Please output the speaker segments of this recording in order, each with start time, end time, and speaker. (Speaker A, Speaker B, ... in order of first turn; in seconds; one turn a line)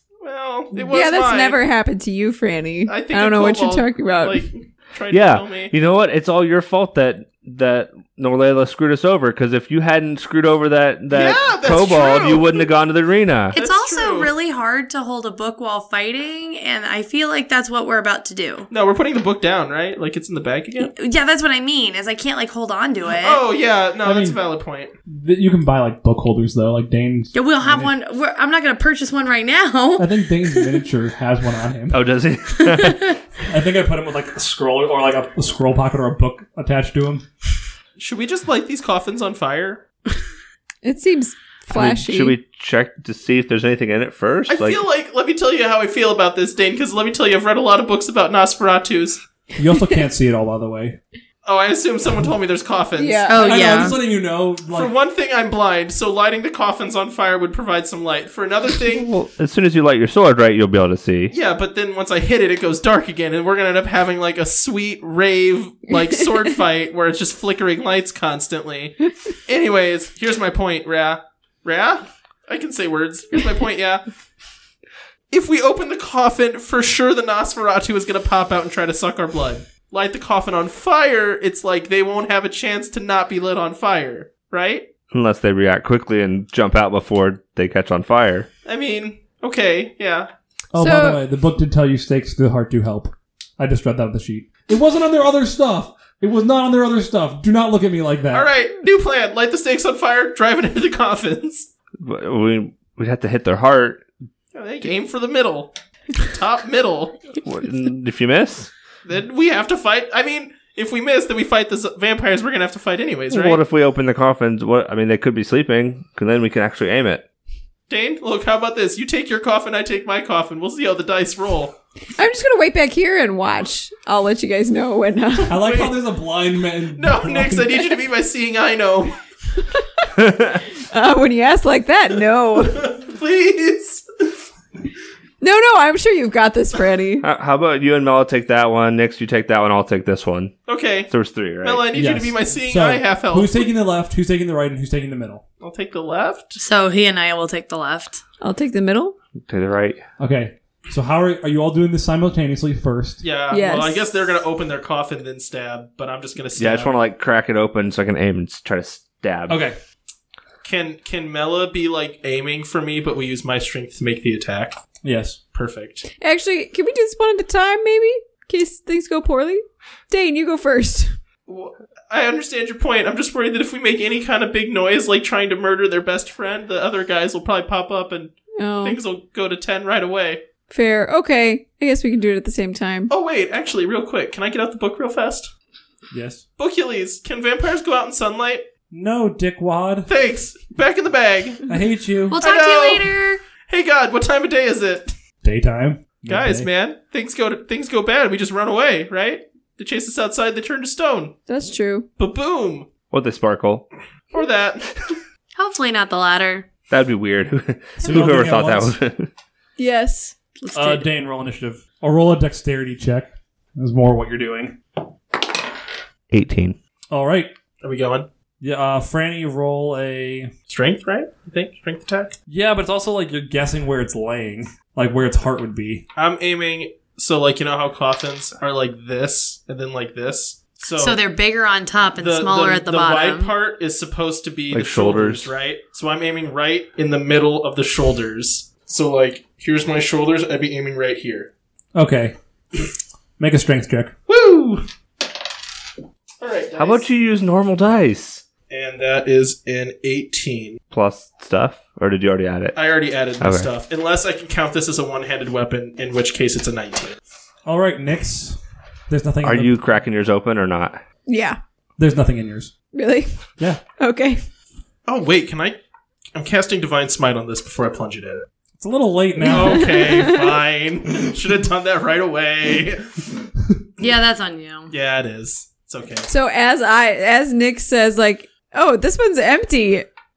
Speaker A: 0.2-1.6
Speaker B: 0.7-4.5
Speaker A: 2.9-5.7
Speaker C: 5.1-13.5
Speaker A: 11.1-12.6
Speaker D: 13.5-18.7
Speaker A: 13.5-14.3
Speaker A: 18.7-20.9
Speaker D: 20.8-23.4
Speaker A: 23.1-24.9
Speaker E: 24.0-24.4
Speaker E: 25.1-27.9
Speaker D: 27.3-30.8
Speaker E: 30.0-32.0
Speaker C: 31.9-33.1
Speaker D: 32.6-33.1
Speaker E: 33.5-37.3
Speaker A: 38.0-39.8
Speaker B: 40.8-42.4
Speaker C: 41.7-44.8
Speaker A: 44.5-49.2
Speaker E: 49.6-51.0
Speaker A: 51.4-53.9
Speaker B: 53.0-53.9
Speaker D: 53.3-54.0
Speaker E: 53.4-54.9
Speaker A: 54.7-59.1
Speaker C: 58.9-61.3
Speaker A: 61.3-69.0
Speaker A: 69.5-74.0
Speaker A: 75.3-84.9
Speaker C: 85.1-88.5
Speaker A: 88.7-90.3
Speaker E: 90.7-98.5
Speaker B: 90.8-91.2
Speaker A: 98.3-101.7
Speaker C: 102.0-104.0
Speaker A: 104.5-107.2
Speaker C: 107.4-108.7
Speaker A: 109.0-113.6
Speaker C: 113.3-117.2
Speaker A: 117.9-121.8
Speaker B: 122.2-125.6
Speaker E: 125.5-127.8
Speaker A: 125.5-126.0
Speaker A: 126.9-129.2
Speaker C: 130.2-130.6
Speaker B: 130.9-132.9
Speaker A: 132.6-134.3
Speaker B: 135.4-137.3
Speaker C: 137.2-140.6
Speaker A: 140.7-143.7
Speaker C: 141.1-141.9
Speaker E: 141.9-145.4
Speaker A: 145.6-146.6
Speaker D: 146.6-148.2
Speaker B: 148.4-149.2
Speaker C: 149.5-150.0
Speaker E: 150.2-153.2
Speaker A: 153.2-157.0
Speaker B: 153.5-154.2
Speaker C: 156.6-159.6
Speaker E: 159.5-159.8
Speaker A: 160.6-164.8
Speaker E: 165.0-165.4
Speaker A: 165.5-166.1
Speaker B: 166.2-171.2
Speaker A: 171.5-180.4
Speaker B: 178.6-179.0
Speaker B: 180.7-183.1
Speaker A: 183.1-185.5
Speaker E: 186.1-186.4
Speaker A: 186.6-188.7
Speaker E: 188.9-190.1
Speaker A: 190.1-191.7
Speaker E: 191.7-192.4
Speaker D: 192.3-193.4
Speaker A: 192.4-195.1
Speaker E: 195.4-196.7
Speaker A: 196.3-201.4
Speaker B: 201.5-202.1
Speaker A: 202.2-202.9
Speaker C: 203.1-203.9
Speaker A: 204.3-205.1
Speaker D: 205.6-206.7
Speaker C: 206.9-209.3
Speaker E: 208.0-209.0
Speaker B: 209.8-210.3
Speaker D: 210.6-211.1
Speaker E: 210.7-214.8
Speaker C: 216.3-216.8
Speaker E: 217.1-217.5
Speaker A: 217.8-218.3
Speaker E: 218.6-220.5
Speaker A: 220.7-222.3
Speaker E: 222.5-226.1
Speaker A: 226.2-231.2
Speaker D: 231.0-233.5
Speaker A: 232.2-241.5
Speaker C: 234.7-235.5
Speaker E: 241.9-242.4
Speaker E: 243.4-244.1
Speaker A: 244.3-244.9
Speaker A: 246.4-247.1
Speaker C: 246.8-248.4
Speaker A: 248.7-250.8
Speaker C: 250.9-252.8
Speaker A: 252.7-257.2
Speaker C: 253.4-253.7
Speaker E: 257.7-259.8
Speaker C: 259.4-261.0
Speaker B: 261.3-261.6
Speaker E: 262.0-262.7
Speaker B: 262.9-264.4
Speaker A: 265.1-265.8
Speaker A: 266.3-268.4
Speaker E: 268.8-270.0
Speaker B: 269.4-270.5
Speaker A: 269.5-273.2
Speaker D: 274.0-274.9
Speaker A: 274.9-276.3
Speaker B: 276.3-280.1